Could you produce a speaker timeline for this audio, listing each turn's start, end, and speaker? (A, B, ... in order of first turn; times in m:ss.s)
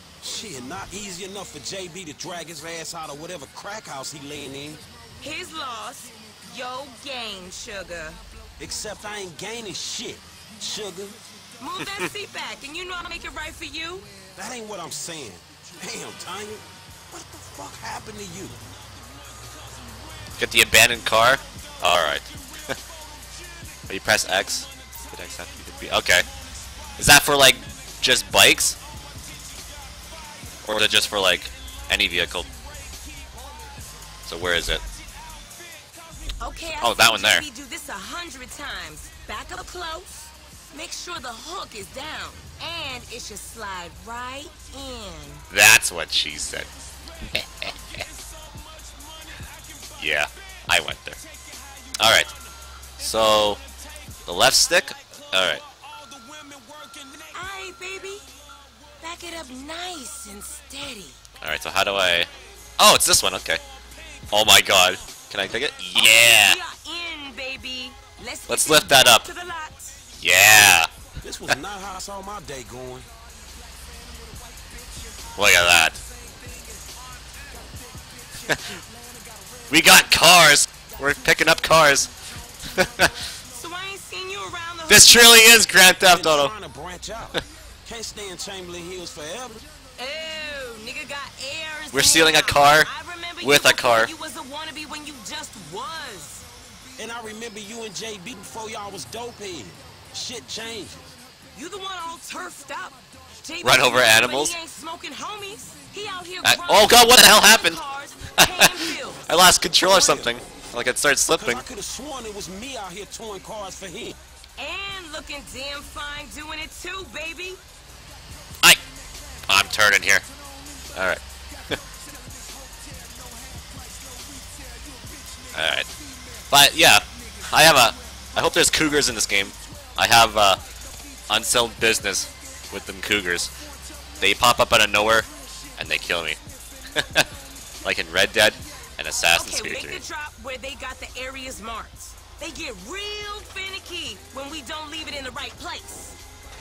0:00.2-0:04.8 A
0:05.2-0:08.2 B
0:08.6-0:11.2 A
0:11.6-0:14.1 B
0:14.4-0:18.6 A
0:20.4-0:22.7 C
0:23.9-0:26.3 C
0:25.0-0:25.6 A
0:27.0-0:28.8 C
0:30.0-0:30.6 A
0:30.6-0:32.5 C
0:32.5-0:33.0 A
0:34.3-0:34.8 C
0:35.3-0:36.3 A
0:36.4-0:45.5 B
0:36.8-0:37.4 C
0:45.5-0:46.7 C
0:47.4-0:47.7 C
0:47.6-0:50.0 A
0:50.0-0:51.2 C
0:52.0-0:52.3 C
0:53.0-0:53.6 C
0:54.3-0:55.6 C
0:55.0-0:57.4 A
0:57.3-0:58.3 B
0:59.0-1:01.2 B
1:01.4-1:03.6 C
1:04.3-1:06.6 C
1:05.9-1:10.0 B
1:08.5-1:09.3 C
1:10.2-1:10.9 C
1:11.2-1:13.1 A
1:15.4-1:16.0 C
1:19.7-1:22.1 C
1:22.8-1:23.1 C
1:23.5-1:25.6 B
1:24.9-1:26.5 C
1:25.9-1:29.6 A
1:30.0-1:36.5 B
1:31.9-1:32.9 C
1:33.4-1:34.1 C
1:37.0-1:41.2 A
1:41.5-1:49.2 B
1:43.6-1:44.6 C
1:46.4-1:47.8 C
1:48.4-1:51.6 C
1:49.8-1:50.3 A
1:51.4-1:54.2 A
1:54.6-1:57.6 B
1:59.5-2:00.2 C
2:01.0-2:01.8 C
2:05.5-2:05.9 C
2:06.5-2:10.6 C
2:11.3-2:13.5 C
2:14.2-2:16.4 C
2:17.0-2:17.3 C
2:17.8-2:20.0 C
2:19.2-2:26.1 B